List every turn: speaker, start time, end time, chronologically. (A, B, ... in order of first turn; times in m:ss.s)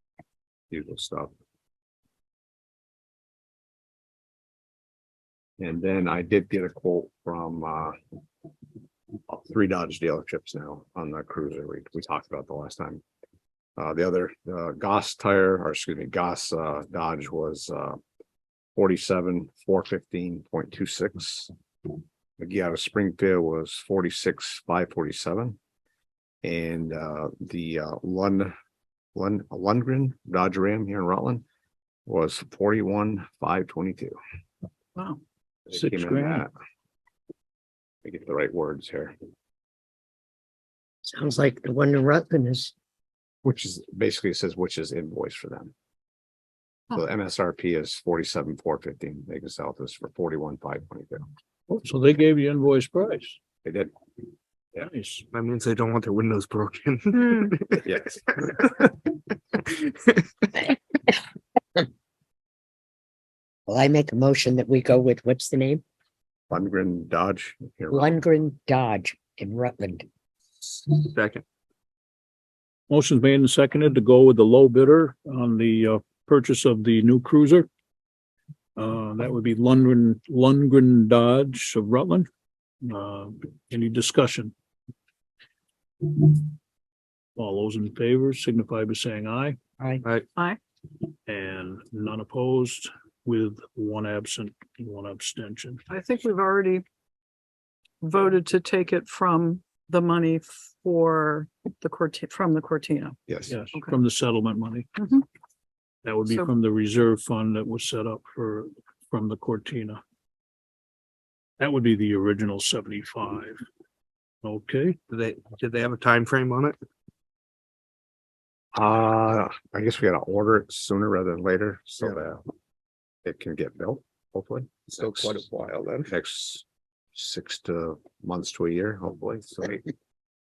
0:00.7-0:01.3 A
0:05.6-0:08.0 A
0:09.3-0:13.0 A
0:13.8-0:18.0 A
0:18.8-0:21.5 A
0:22.4-0:25.6 A
0:26.4-0:28.5 A
0:29.2-0:31.4 A
0:32.1-0:34.2 A
0:35.7-0:36.5 A
0:35.7-0:36.4 B
0:38.0-0:39.2 A
0:41.1-0:42.7 C
0:43.4-0:45.7 A
0:46.9-0:51.2 A
0:51.7-0:53.4 B
0:53.6-0:53.9 A
0:54.8-0:55.2 B
0:55.3-0:57.9 D
0:57.1-0:57.6 E
0:57.8-0:58.5 A
0:59.7-1:00.2 D
1:03.7-1:05.8 C
1:06.5-1:08.2 A
1:07.9-1:10.0 C
1:11.0-1:11.4 D
1:12.9-1:17.7 B
1:18.8-1:22.3 B
1:22.8-1:24.5 B
1:26.0-1:26.4 B
1:27.4-1:29.6 B
1:29.8-1:30.0 C
1:31.3-1:35.8 B
1:35.9-1:36.8 E
1:38.0-1:43.2 E
1:43.3-1:43.6 A
1:43.5-1:44.9 B
1:45.0-1:45.2 E
1:46.0-1:50.0 B
1:51.6-1:53.6 B
1:54.4-1:55.0 B
1:55.1-1:56.8 D
1:58.8-2:02.4 A
2:03.2-2:05.4 A
2:04.9-2:06.1 D
2:06.0-2:09.8 A